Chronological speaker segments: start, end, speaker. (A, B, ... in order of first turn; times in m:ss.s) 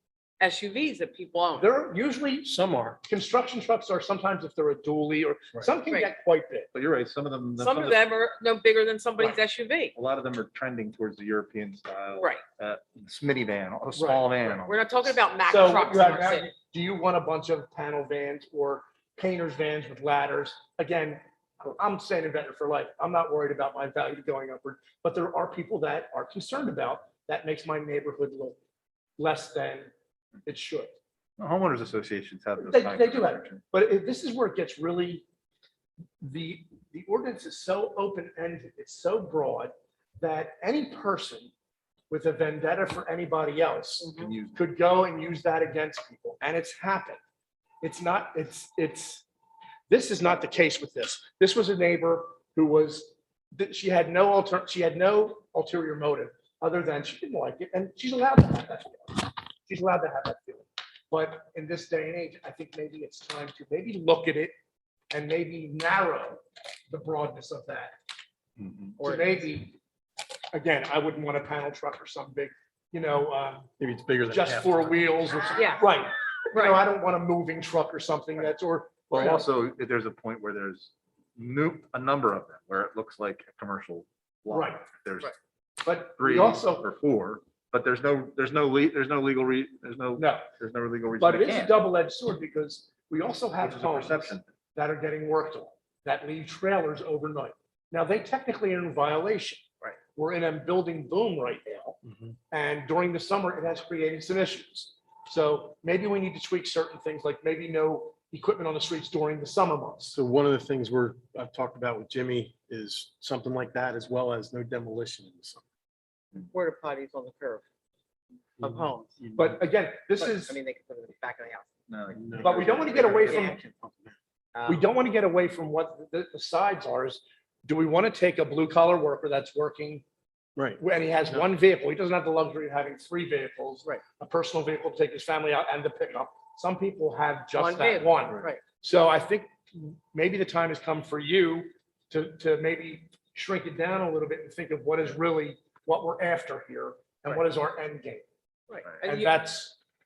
0:00.4-0:01.7 A
0:01.6-0:02.5 B
0:02.4-0:03.0 C
0:03.0-0:06.7 B
0:06.7-0:08.0 D
0:07.6-0:09.9 A
0:09.9-0:15.2 D
0:12.2-0:12.4 A
0:14.0-0:14.3 B
0:14.6-0:16.5 A
0:15.4-0:28.6 B
0:29.2-0:29.9 B
0:30.4-0:31.0 B
0:31.4-0:33.6 D
0:32.6-0:35.2 B
0:36.2-0:41.5 B
0:42.1-0:47.2 B
0:44.0-0:44.3 A
0:44.1-0:44.6 D
0:47.8-0:49.2 B
0:49.9-1:04.5 B
1:05.1-1:07.9 B
1:08.6-1:09.0 D
1:09.0-1:09.4 A
1:09.0-1:09.8 B
1:10.5-1:13.7 B
1:13.8-1:15.0 C
1:14.2-1:19.4 B
1:15.6-1:15.8 A
1:16.5-1:16.8 A
1:19.1-1:25.3 D
1:24.5-1:24.9 B
1:25.8-1:26.8 B
1:26.2-1:31.8 D
1:30.2-1:30.4 B
1:31.2-1:42.0 B
1:33.6-1:34.5 D
1:42.1-1:42.3 C
1:42.5-1:50.1 B
1:50.1-1:55.6 C
1:56.4-1:57.6 A
1:58.6-1:59.1 A
1:58.6-1:59.6 C
1:59.4-2:00.6 B
2:00.2-2:01.7 A
2:01.9-2:03.4 D
2:02.1-2:04.2 C
2:02.4-2:03.6 B
2:03.2-2:03.6 A
2:04.5-2:04.8 A
2:04.7-2:10.0 B
2:10.6-2:11.4 C
2:10.8-2:28.2 B
2:17.5-2:18.6 A
2:28.7-2:29.3 A
2:29.0-2:29.8 B